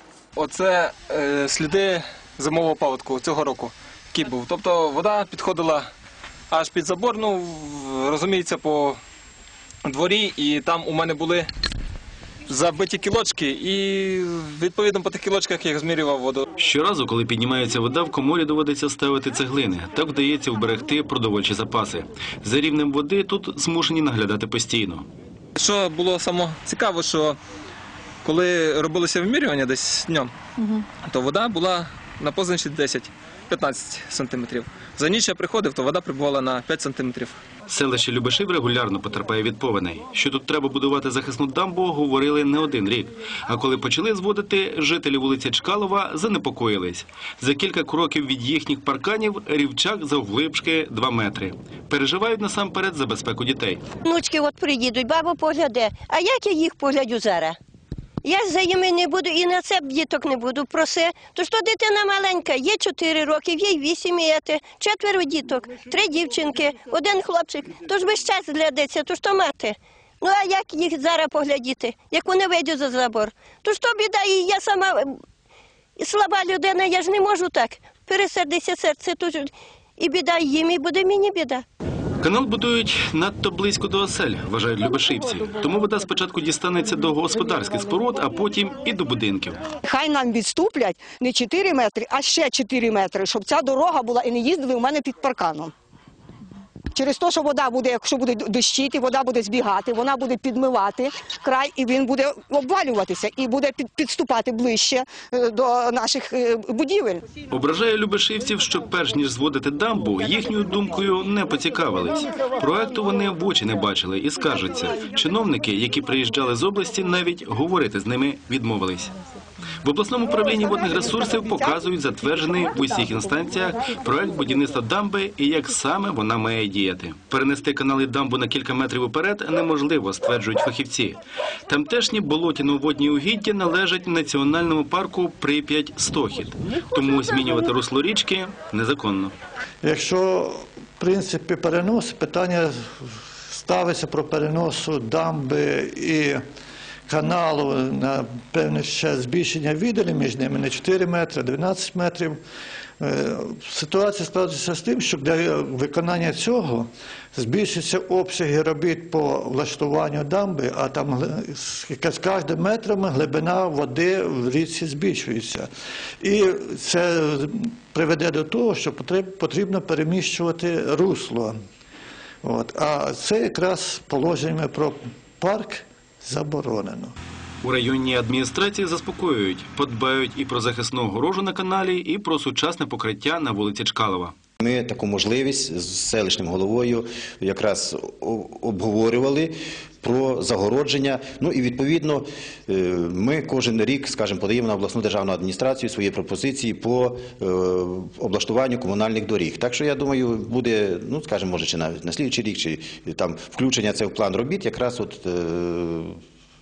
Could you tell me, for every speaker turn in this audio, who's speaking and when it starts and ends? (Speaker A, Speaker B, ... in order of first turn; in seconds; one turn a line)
Speaker A: 0.3-5.9
Speaker A: 6.5-9.0
Speaker A: 9.8-11.5
Speaker A: 12.5-16.4
Speaker B: 16.6-25.1
Speaker A: 25.6-27.4
Speaker A: 28.2-37.4
Speaker B: 37.7-53.8
Speaker C: 54.0-57.5
Speaker C: 58.2-75.2
Speaker C: 76.0-81.6
Speaker B: 82.2-89.6
Speaker D: 89.8-95.7
Speaker D: 96.9-107.2
Speaker B: 107.5-119.1
Speaker B: 119.8-139.3
Speaker E: 139.8-142.9
Speaker E: 143.5-146.4
Speaker E: 147.1-152.4
Speaker E: 153.0-165.7
Speaker E: 166.2-171.5
Speaker E: 172.4-177.1
Speaker B: 177.6-184.3
Speaker F: 184.6-206.2